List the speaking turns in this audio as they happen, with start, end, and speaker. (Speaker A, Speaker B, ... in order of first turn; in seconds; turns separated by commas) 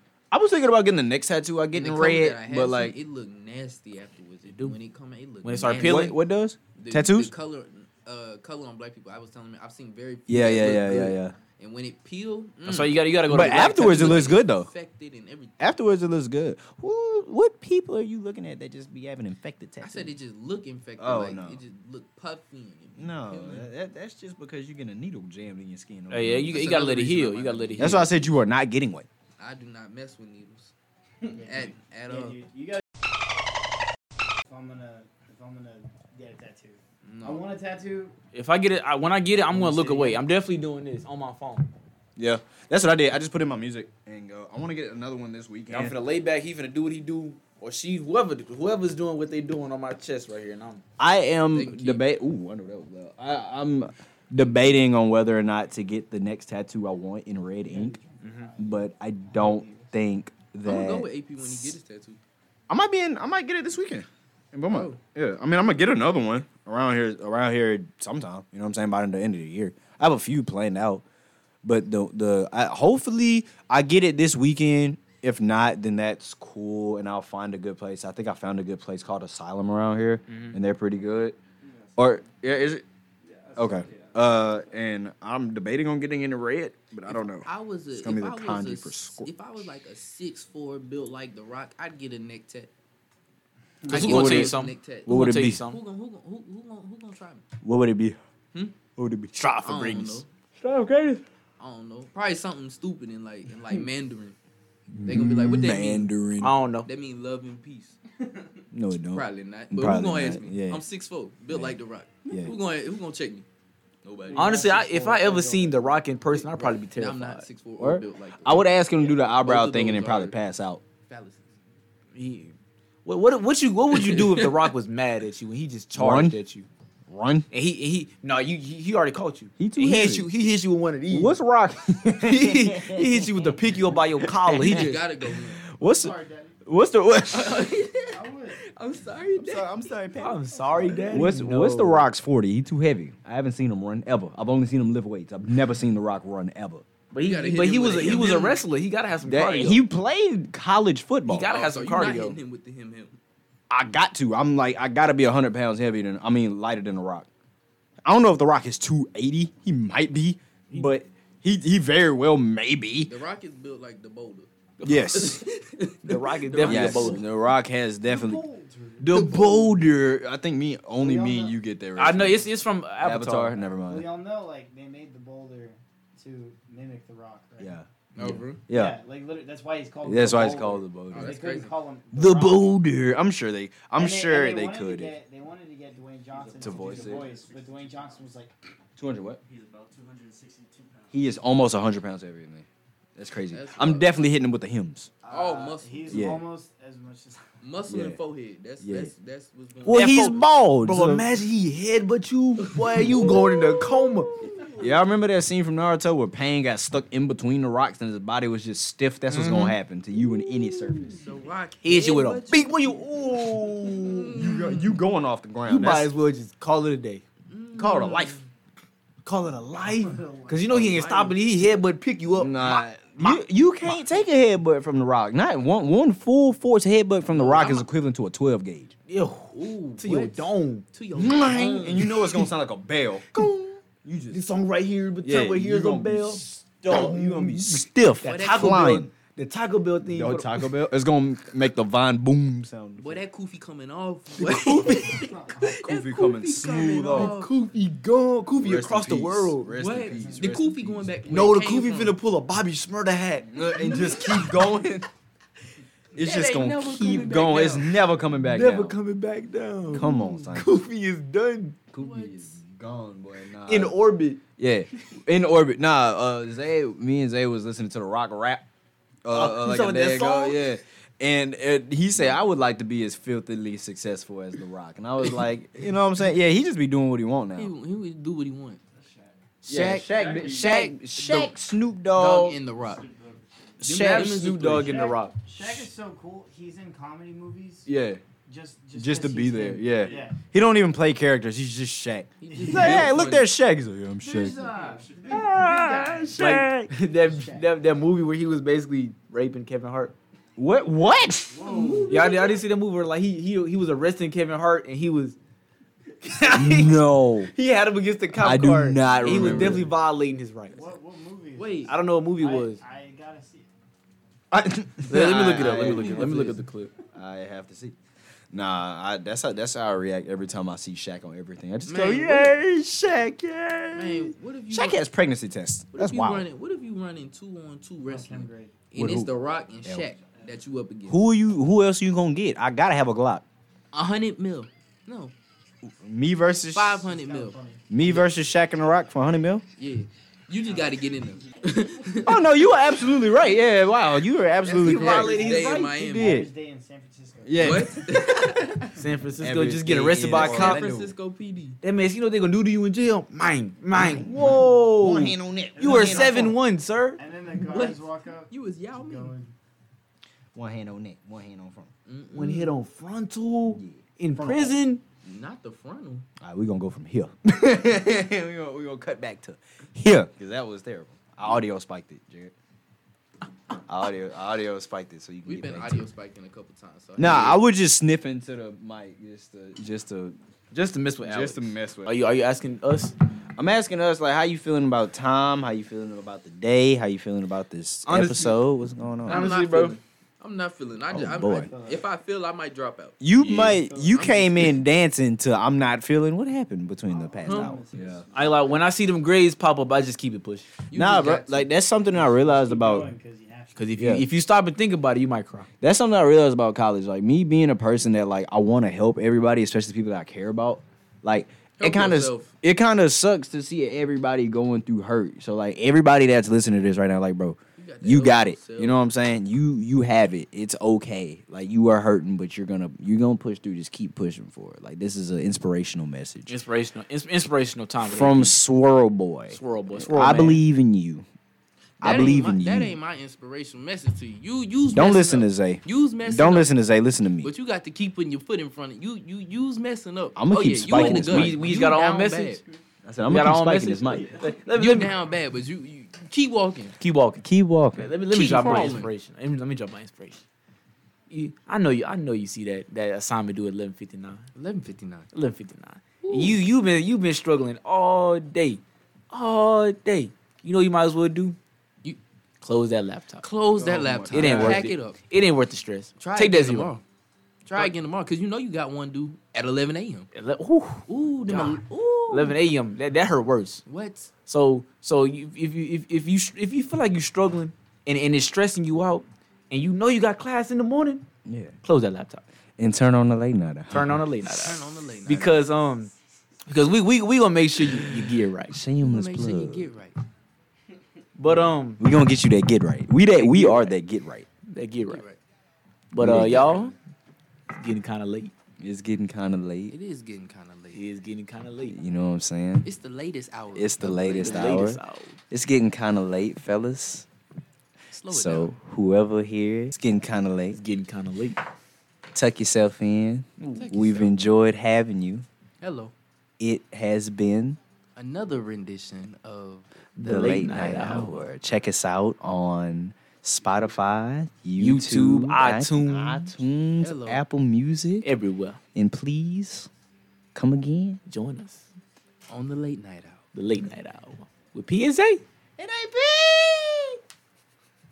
Speaker A: 0.3-3.0, Speaker B: 1.7-6.2, Speaker C: 4.5-4.8, Speaker C: 5.4-6.2, Speaker A: 5.7-7.3, Speaker B: 6.8-15.6, Speaker A: 10.3-11.3, Speaker C: 12.6-14.4, Speaker A: 13.3-14.7, Speaker A: 15.6-20.1, Speaker B: 19.8-23.7, Speaker A: 21.0-21.6, Speaker A: 22.9-26.8, Speaker C: 26.1-28.1, Speaker B: 26.5-28.0, Speaker A: 27.8-29.1, Speaker B: 29.4-30.7, Speaker D: 31.2-32.8, Speaker B: 31.4-32.4, Speaker D: 34.5-38.1, Speaker B: 37.0-37.5, Speaker C: 38.3-41.7, Speaker D: 39.5-40.2, Speaker A: 42.1-45.9, Speaker C: 45.7-50.8, Speaker A: 51.0-58.0, Speaker B: 51.5-52.0, Speaker D: 57.6-59.9, Speaker C: 58.2-58.5, Speaker A: 58.6-61.7, Speaker B: 60.6-62.2, Speaker A: 62.7-71.0, Speaker B: 64.7-65.0, Speaker A: 71.6-81.4, Speaker C: 80.3-80.6, Speaker E: 81.6-82.2, Speaker A: 82.0-82.8, Speaker E: 83.2-84.4, Speaker A: 83.5-89.3, Speaker B: 87.1-92.7, Speaker D: 93.8-94.3, Speaker B: 93.8-97.4, Speaker C: 93.9-95.8, Speaker A: 94.1-94.5, Speaker A: 95.0-95.6, Speaker A: 97.6-98.2, Speaker A: 99.0-99.3, Speaker C: 99.3-101.2, Speaker B: 99.6-100.3, Speaker B: 101.6-104.3, Speaker A: 104.9-106.5, Speaker B: 105.0-106.1, Speaker C: 106.4-106.9, Speaker B: 106.8-108.0, Speaker A: 108.7-110.8, Speaker B: 109.1-113.5, Speaker A: 111.5-111.8, Speaker A: 112.3-112.5, Speaker E: 114.2-115.9, Speaker D: 114.3-115.7, Speaker C: 114.3-117.5, Speaker B: 116.3-120.3, Speaker A: 117.8-120.8, Speaker B: 121.0-121.5, Speaker C: 122.1-122.5, Speaker C: 123.0-126.7, Speaker B: 123.9-124.7, Speaker A: 125.9-126.4, Speaker A: 127.1-127.5, Speaker C: 127.5-131.3, Speaker A: 129.6-130.3, Speaker A: 131.1-135.1, Speaker C: 132.2-135.1, Speaker B: 134.6-135.6, Speaker A: 135.6-137.7, Speaker D: 135.9-136.6, Speaker B: 137.3-139.8, Speaker D: 138.1-138.6, Speaker A: 139.4-146.8, Speaker C: 140.2-142.1, Speaker D: 140.7-141.1, Speaker C: 147.1-149.8, Speaker B: 147.1-148.6, Speaker A: 149.2-151.5, Speaker C: 151.2-152.4, Speaker B: 151.4-153.2, Speaker A: 153.7-157.3, Speaker A: 158.0-163.1, Speaker B: 163.1-164.5, Speaker C: 164.8-165.4, Speaker A: 164.8-165.4, Speaker B: 165.1-167.2, Speaker C: 166.0-167.2, Speaker A: 166.6-168.4, Speaker D: 168.1-169.1, Speaker A: 169.0-174.1, Speaker B: 169.1-169.7, Speaker D: 171.0-171.6, Speaker C: 172.0-173.6, Speaker D: 173.8-177.8, Speaker A: 177.6-179.0, Speaker B: 178.1-178.6, Speaker D: 178.7-182.8, Speaker A: 180.0-181.3, Speaker B: 181.1-181.7, Speaker A: 182.1-185.1, Speaker D: 183.9-188.5, Speaker E: 186.3-188.3, Speaker A: 186.6-187.2, Speaker A: 189.0-189.4, Speaker E: 189.4-191.4, Speaker A: 191.1-195.1, Speaker B: 193.5-194.1, Speaker E: 195.2-195.7, Speaker D: 195.2-197.4, Speaker B: 195.3-196.3, Speaker A: 196.1-196.4, Speaker B: 197.6-200.3, Speaker A: 197.9-198.2, Speaker A: 198.8-199.1, Speaker A: 199.8-201.3, Speaker C: 199.9-204.4, Speaker B: 202.6-203.4, Speaker A: 202.8-204.1, Speaker B: 204.2-204.9, Speaker A: 204.6-211.2, Speaker C: 209.3-211.1, Speaker B: 211.2-213.0, Speaker C: 211.8-214.4, Speaker B: 213.8-215.0, Speaker A: 214.3-216.1, Speaker C: 215.7-217.2, Speaker B: 217.5-218.4, Speaker A: 217.7-218.4, Speaker C: 219.2-224.0, Speaker D: 219.8-221.4, Speaker A: 220.7-221.0, Speaker A: 222.3-228.9, Speaker B: 227.3-227.8, Speaker C: 229.1-230.8, Speaker B: 229.5-232.4, Speaker A: 231.1-234.4, Speaker C: 234.3-240.7, Speaker A: 235.2-239.1, Speaker B: 238.2-239.0, Speaker A: 240.1-243.2, Speaker B: 243.0-247.5, Speaker C: 244.4-245.8, Speaker D: 245.1-245.7, Speaker A: 245.6-247.3, Speaker C: 246.6-249.8, Speaker A: 248.6-251.1, Speaker B: 249.8-252.2, Speaker D: 250.1-250.5, Speaker C: 251.2-254.1, Speaker A: 253.5-255.1, Speaker B: 253.8-254.7, Speaker A: 256.1-259.0, Speaker B: 256.1-258.0, Speaker C: 258.3-261.8, Speaker A: 259.9-260.7, Speaker A: 261.9-264.0, Speaker B: 262.0-262.6, Speaker C: 263.7-264.4, Speaker A: 264.5-268.6, Speaker A: 269.2-277.7, Speaker C: 269.3-270.6, Speaker B: 277.6-278.8, Speaker E: 278.9-279.4, Speaker B: 279.6-281.5, Speaker A: 279.6-282.6, Speaker E: 280.0-280.7, Speaker B: 282.1-283.0, Speaker E: 282.7-283.9, Speaker A: 283.8-284.4, Speaker B: 283.8-285.2, Speaker C: 283.9-285.3, Speaker D: 284.8-287.9, Speaker A: 287.9-288.2, Speaker D: 288.4-290.4, Speaker A: 288.9-294.6, Speaker E: 290.0-290.3, Speaker B: 292.4-293.4, Speaker D: 292.5-293.1, Speaker C: 292.9-293.4, Speaker D: 294.2-296.5, Speaker E: 294.4-295.6, Speaker A: 295.3-296.9, Speaker C: 296.4-300.1, Speaker D: 297.2-297.7, Speaker A: 300.6-302.0, Speaker D: 301.5-302.3, Speaker B: 301.6-302.5, Speaker C: 302.1-305.4, Speaker C: 306.2-310.9, Speaker A: 306.4-307.5, Speaker A: 308.3-309.9, Speaker D: 309.4-309.8, Speaker D: 310.7-313.7, Speaker B: 311.6-312.0, Speaker C: 311.9-312.8, Speaker A: 314.5-316.6, Speaker C: 315.1-316.9, Speaker B: 315.1-316.6, Speaker A: 317.1-317.9, Speaker A: 318.5-326.5, Speaker B: 321.9-322.6, Speaker B: 323.9-325.0, Speaker B: 325.9-331.2, Speaker D: 328.0-328.7, Speaker A: 328.9-329.3, Speaker A: 331.1-333.4, Speaker B: 333.9-335.3, Speaker A: 335.9-337.1, Speaker B: 336.7-337.6, Speaker D: 337.1-337.8, Speaker A: 337.9-339.6, Speaker B: 339.8-342.4, Speaker A: 342.2-346.5, Speaker B: 344.6-346.4, Speaker C: 344.8-345.9, Speaker D: 344.9-348.1, Speaker A: 347.4-348.1, Speaker B: 347.6-349.0, Speaker C: 348.9-350.9, Speaker A: 349.4-351.1, Speaker B: 350.3-351.8, Speaker C: 351.8-357.2, Speaker A: 353.9-356.6, Speaker D: 355.7-356.6, Speaker D: 357.2-359.5, Speaker B: 357.5-359.3, Speaker A: 360.5-361.9, Speaker B: 362.1-362.8, Speaker C: 362.3-365.0, Speaker A: 363.7-364.8, Speaker B: 365.2-366.2, Speaker A: 366.4-372.5, Speaker A: 373.7-376.0, Speaker B: 375.4-377.6, Speaker A: 377.2-380.4, Speaker C: 380.7-383.1, Speaker A: 381.2-382.1, Speaker A: 383.6-389.4, Speaker C: 388.1-388.6, Speaker C: 389.2-390.0, Speaker B: 389.2-394.8, Speaker A: 391.1-391.7, Speaker D: 391.4-392.1, Speaker A: 393.2-398.2, Speaker C: 393.4-393.8, Speaker D: 393.5-394.7, Speaker D: 397.1-398.9, Speaker B: 397.4-397.8, Speaker C: 398.3-400.7, Speaker B: 400.9-401.7, Speaker A: 400.9-403.1, Speaker D: 402.1-404.1, Speaker C: 403.8-405.7, Speaker A: 404.0-404.3, Speaker A: 405.8-426.6, Speaker B: 411.8-412.5, Speaker B: 417.8-419.1, Speaker C: 426.5-428.6, Speaker A: 428.1-431.2, Speaker C: 429.5-430.6, Speaker A: 432.0-432.9, Speaker B: 432.0-436.7, Speaker A: 434.9-437.5, Speaker B: 437.4-442.6, Speaker A: 440.4-441.7, Speaker C: 440.9-442.6, Speaker A: 443.0-444.3, Speaker C: 443.2-445.1, Speaker B: 444.7-446.9, Speaker C: 447.0-450.4, Speaker A: 447.4-449.0, Speaker B: 448.3-449.1, Speaker C: 451.3-454.5, Speaker B: 454.6-455.3, Speaker C: 455.3-461.6, Speaker B: 456.2-456.6, Speaker C: 462.6-463.4, Speaker B: 463.4-465.2, Speaker A: 463.7-464.9, Speaker C: 464.3-466.9, Speaker B: 466.2-467.0, Speaker B: 467.6-470.3, Speaker C: 470.3-473.8, Speaker B: 471.1-472.6, Speaker B: 473.9-474.3, Speaker C: 474.5-481.2, Speaker A: 481.4-481.8, Speaker C: 481.8-482.4, Speaker A: 482.8-484.2, Speaker C: 483.9-486.1, Speaker B: 484.4-485.6, Speaker C: 486.7-488.8, Speaker A: 488.7-489.9, Speaker B: 489.0-490.2, Speaker C: 491.4-492.0, Speaker A: 492.0-494.5, Speaker C: 493.3-494.0, Speaker C: 494.6-495.2, Speaker B: 495.0-495.4, Speaker C: 496.1-496.9, Speaker A: 496.2-496.8, Speaker B: 496.5-496.9, Speaker C: 497.7-498.5, Speaker A: 498.8-499.9, Speaker B: 499.9-501.0, Speaker C: 500.9-502.0, Speaker A: 501.9-502.9, Speaker B: 502.8-504.9, Speaker A: 503.7-507.2, Speaker C: 504.3-505.4, Speaker B: 508.1-508.7, Speaker A: 508.3-510.8, Speaker C: 510.7-511.6, Speaker A: 512.3-515.5, Speaker B: 513.7-514.4, Speaker B: 515.8-516.1, Speaker A: 516.6-517.8, Speaker B: 518.2-521.2, Speaker C: 520.2-521.5, Speaker A: 520.2-528.3, Speaker C: 524.8-526.5, Speaker B: 527.0-527.4, Speaker C: 528.2-528.8, Speaker A: 528.9-529.9, Speaker A: 530.5-531.2, Speaker C: 531.3-531.9, Speaker B: 532.5-533.4, Speaker C: 533.5-535.4, Speaker A: 535.8-537.2